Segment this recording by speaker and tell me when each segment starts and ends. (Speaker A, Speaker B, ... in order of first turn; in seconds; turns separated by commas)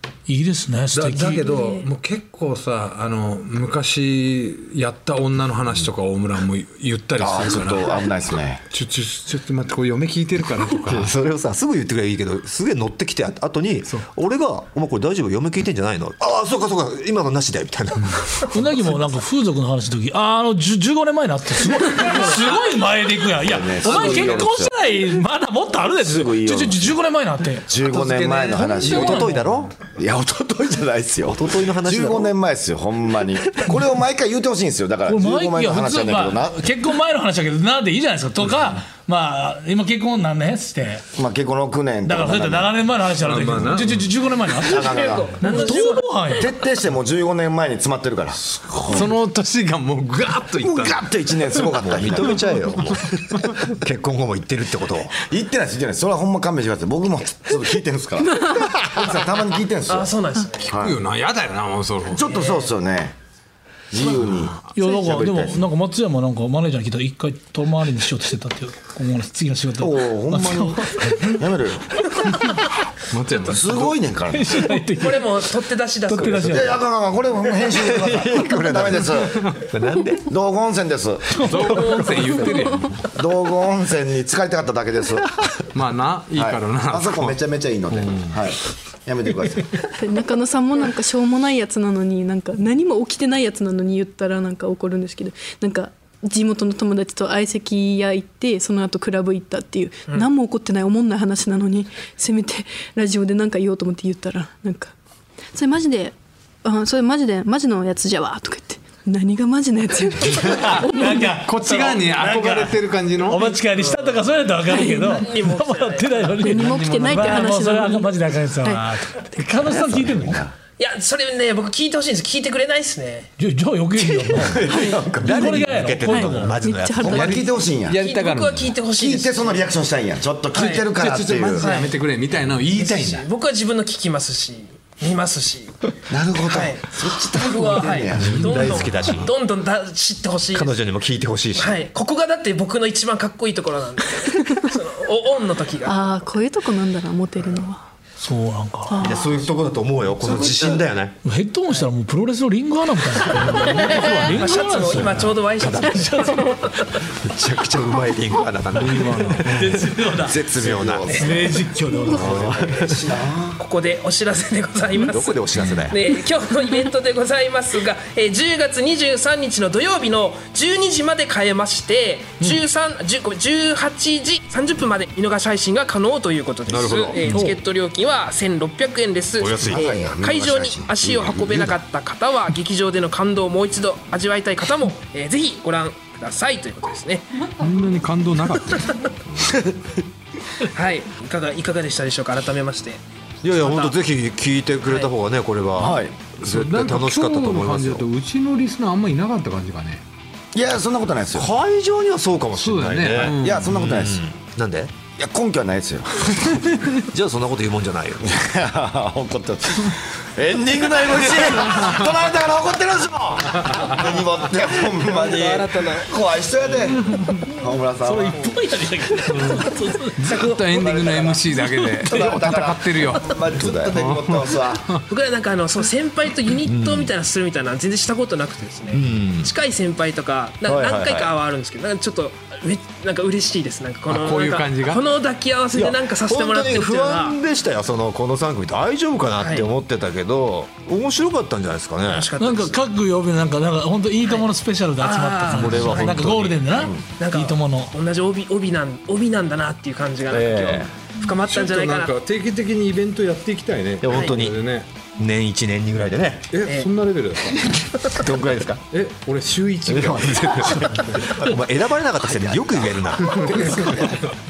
Speaker A: 0.3-1.4, Speaker B: 0.9-8.1, Speaker C: 1.4-1.9, Speaker D: 7.2-8.6, Speaker B: 8.7-11.1, Speaker E: 10.8-18.9, Speaker A: 18.5-27.7, Speaker D: 23.4-24.7, Speaker B: 23.9-24.3, Speaker D: 26.0-26.9, Speaker D: 27.7-29.3, Speaker B: 27.8-29.4, Speaker E: 28.8-29.7, Speaker A: 28.9-29.3, Speaker D: 29.9-36.6, Speaker E: 31.2-32.3, Speaker A: 35.0-41.0, Speaker D: 41.1-42.8, Speaker A: 42.0-46.5, Speaker B: 43.2-44.3, Speaker D: 44.6-45.4, Speaker F: 44.6-46.4, Speaker D: 46.4-49.1, Speaker A: 48.6-49.0, Speaker B: 48.9-51.0, Speaker D: 50.6-52.6, Speaker E: 51.8-55.1, Speaker D: 55.2-61.0, Speaker F: 59.9-60.7, Speaker B: 60.6-62.2, Speaker D: 62.1-63.1, Speaker F: 62.2-62.7, Speaker D: 63.9-65.6, Speaker A: 64.7-71.3, Speaker D: 69.8-72.0, Speaker B: 73.1-74.0, Speaker D: 73.5-74.7, Speaker A: 74.3-75.5, Speaker F: 75.0-76.6, Speaker A: 76.0-76.8, Speaker D: 76.4-79.5, Speaker E: 77.8-80.3, Speaker D: 80.2-81.4, Speaker A: 81.3-82.5, Speaker B: 81.4-83.0, Speaker D: 83.1-85.4, Speaker B: 85.7-87.4, Speaker D: 86.3-89.9, Speaker B: 87.9-88.3, Speaker C: 90.0-104.9, Speaker C: 105.5-111.4, Speaker A: 110.4-120.4, Speaker B: 111.0-113.8, Speaker C: 114.7-115.3, Speaker F: 115.0-116.5, Speaker C: 116.4-119.3, Speaker B: 116.5-117.5, Speaker D: 119.6-120.5, Speaker F: 120.8-123.3, Speaker A: 123.4-124.7, Speaker E: 124.0-127.4, Speaker D: 124.3-125.4, Speaker C: 124.7-127.4, Speaker A: 125.2-126.5, Speaker D: 127.0-128.0, Speaker B: 127.1-128.9, Speaker F: 128.0-129.7, Speaker D: 128.9-131.7, Speaker F: 130.5-130.9, Speaker B: 130.9-133.3, Speaker F: 131.6-132.0, Speaker F: 132.7-135.8, Speaker D: 136.1-138.9, Speaker F: 136.4-140.7, Speaker E: 138.2-139.3, Speaker E: 140.5-141.8, Speaker F: 141.6-146.2, Speaker C: 145.8-147.9, Speaker A: 148.2-149.0, Speaker C: 148.9-149.4, Speaker E: 149.0-151.2, Speaker D: 150.2-150.8, Speaker A: 151.2-156.8, Speaker B: 153.5-154.4, Speaker F: 153.9-156.9, Speaker E: 155.6-156.1, Speaker E: 157.1-161.1, Speaker A: 158.8-160.4, Speaker D: 160.2-163.6, Speaker F: 161.1-161.4, Speaker A: 161.1-162.6, Speaker E: 162.2-163.0, Speaker F: 163.6-187.5, Speaker E: 165.0-166.0, Speaker D: 165.1-165.9, Speaker E: 176.7-177.5, Speaker A: 177.2-177.6, Speaker E: 179.4-179.9, Speaker D: 179.6-181.8, Speaker B: 187.6-189.0, Speaker F: 190.6-193.0, Speaker E: 193.4-198.1, Speaker F: 193.6-193.9, Speaker F: 194.8-195.1, Speaker D: 195.8-196.2, Speaker B: 196.4-200.0, Speaker D: 200.5-201.5, Speaker E: 201.3-204.9, Speaker B: 202.6-203.9, Speaker D: 203.3-204.2, Speaker D: 205.2-206.6, Speaker E: 207.0-208.3, Speaker D: 208.2-218.5, Speaker F: 215.0-216.1, Speaker A: 218.0-220.3, Speaker B: 219.3-219.7, Speaker B: 220.2-225.0, Speaker F: 220.2-220.9, Speaker D: 220.7-224.9, Speaker F: 225.1-237.4, Speaker E: 226.6-227.1, Speaker E: 228.9-229.5, Speaker E: 230.6-231.3, Speaker B: 234.1-235.1, Speaker E: 235.7-242.3, Speaker F: 239.4-239.7, Speaker F: 242.1-242.8, Speaker A: 242.4-247.9, Speaker F: 244.2-246.2, Speaker E: 245.4-246.9, Speaker F: 247.2-252.1, Speaker E: 250.3-250.9, Speaker B: 251.3-254.9, Speaker E: 254.0-254.6, Speaker F: 254.1-254.4, Speaker E: 255.1-256.5, Speaker B: 256.5-257.7, Speaker F: 256.6-256.9, Speaker E: 258.1-258.8, Speaker B: 258.9-260.9, Speaker E: 259.9-264.2, Speaker B: 263.3-264.1